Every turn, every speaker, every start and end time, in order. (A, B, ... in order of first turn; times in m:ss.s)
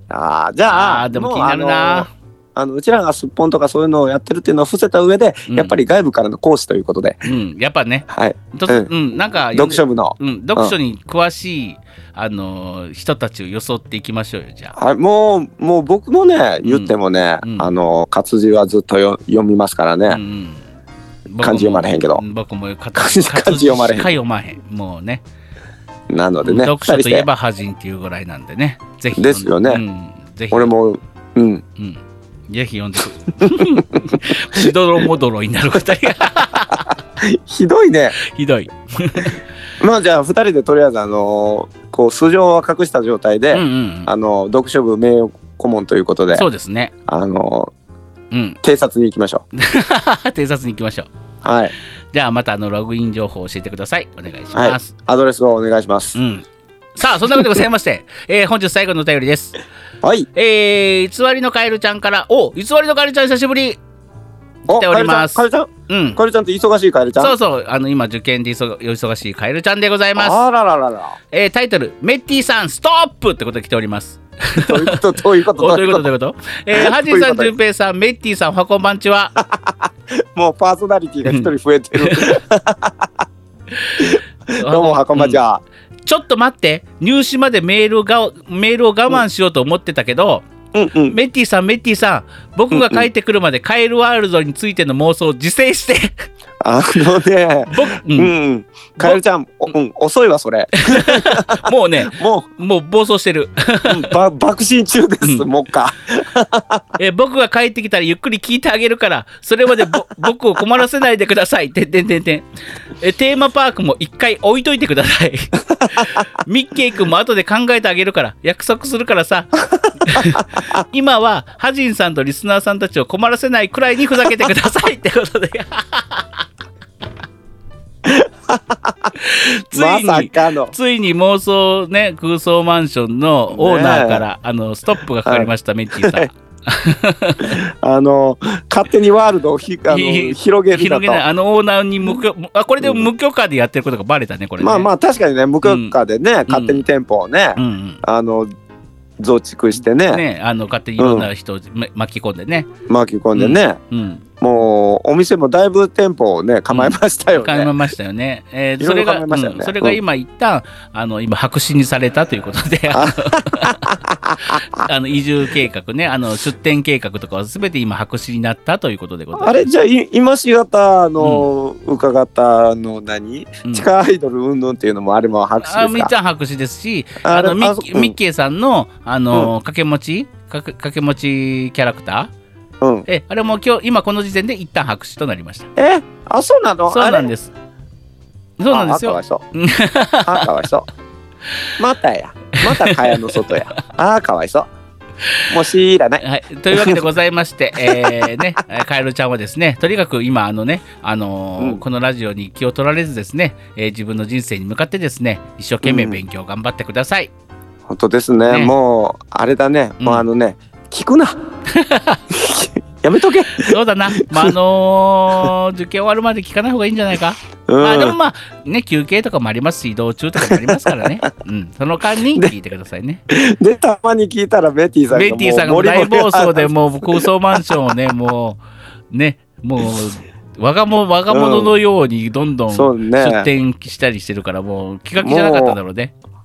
0:00.1-0:07.2 A
0:00.6-0:02.1 B
0:05.5-0:05.8 B
0:07.2-0:14.7 B
0:08.1-0:10.7 A
0:14.7-0:20.2 A
0:16.6-0:17.7 B
0:20.1-0:20.6 B
0:21.3-0:25.2 B
0:21.4-0:22.2 A
0:22.9-0:24.1 A
0:26.1-0:27.3 A
0:26.4-0:30.7 B
0:29.2-0:29.8 A
0:30.5-0:31.6 A
0:31.8-0:36.9 B
0:33.4-0:34.7 A
0:36.1-0:38.2 A
0:38.2-0:39.4 B
0:39.8-0:46.5 A
0:43.5-0:44.1 B
0:46.3-0:46.9 B
0:47.1-0:47.7 A
0:48.3-0:48.6 B
0:48.6-0:49.4 A
0:49.6-0:51.1 B
0:51.4-0:51.7 A
0:52.1-0:54.9 B
0:54.5-0:56.2 A
0:56.1-0:59.6 B
1:00.0-1:00.3 A
1:00.3-1:03.8 B
1:04.7-1:07.4 A
1:04.7-1:06.2 B
1:07.2-1:10.4 B
1:10.2-1:11.2 A
1:11.3-1:19.4 B
1:14.6-1:16.0 A
1:16.7-1:17.5 A
1:19.4-1:23.2 A
1:21.2-1:22.3 B
1:23.8-1:25.4 B
1:24.0-1:25.6 A
1:26.0-1:30.5 B
1:30.7-1:31.2 A
1:31.1-1:36.2 B
1:32.7-1:33.0 A
1:36.6-1:42.5 A
1:37.7-1:38.3 B
1:40.8-1:44.1 B
1:43.9-1:46.8 A
1:47.0-1:52.4 B
1:53.0-2:06.4 B
2:08.0-2:09.1 A
2:09.2-2:17.6 B
2:09.7-2:10.7 A
2:13.5-2:14.2 A
2:15.2-2:16.3 A
2:17.4-2:21.2 A
2:19.9-2:24.9 B
2:22.8-2:23.1 A
2:24.6-2:28.5 A
2:25.6-2:26.0 B
2:26.5-2:26.8 B
2:27.6-2:28.0 B
2:29.2-2:30.2 A
2:30.1-2:32.7 B
2:31.0-2:31.3 A
2:32.9-2:33.8 A
2:33.3-2:34.2 B
2:34.4-2:37.7 A
2:36.7-2:49.7 B
2:38.8-2:40.0 A
2:42.9-2:44.8 A
2:49.3-2:56.1 A
2:51.2-2:51.5 B
2:55.6-3:02.3 B
2:57.2-2:58.1 A
3:02.8-3:03.1 A
3:03.1-3:05.7 B
3:05.8-3:07.3 A
3:06.9-3:07.5 B
3:08.6-3:10.5 B
3:08.7-3:09.4 A
3:10.2-3:10.8 A
3:11.8-3:14.7 A
3:12.6-3:13.8 B
3:15.5-3:17.0 A
3:16.2-3:27.3 B
3:17.8-3:18.4 A
3:25.8-3:26.2 A
3:27.9-3:31.4 A
3:31.7-3:32.2 B
3:32.3-3:34.5 A
3:33.5-3:43.2 B
3:37.7-3:38.2 A
3:40.4-3:41.1 A
3:43.3-3:47.9 A
3:45.1-3:56.1 B
3:51.3-3:51.7 A
3:52.7-3:53.5 A
3:55.2-3:55.8 A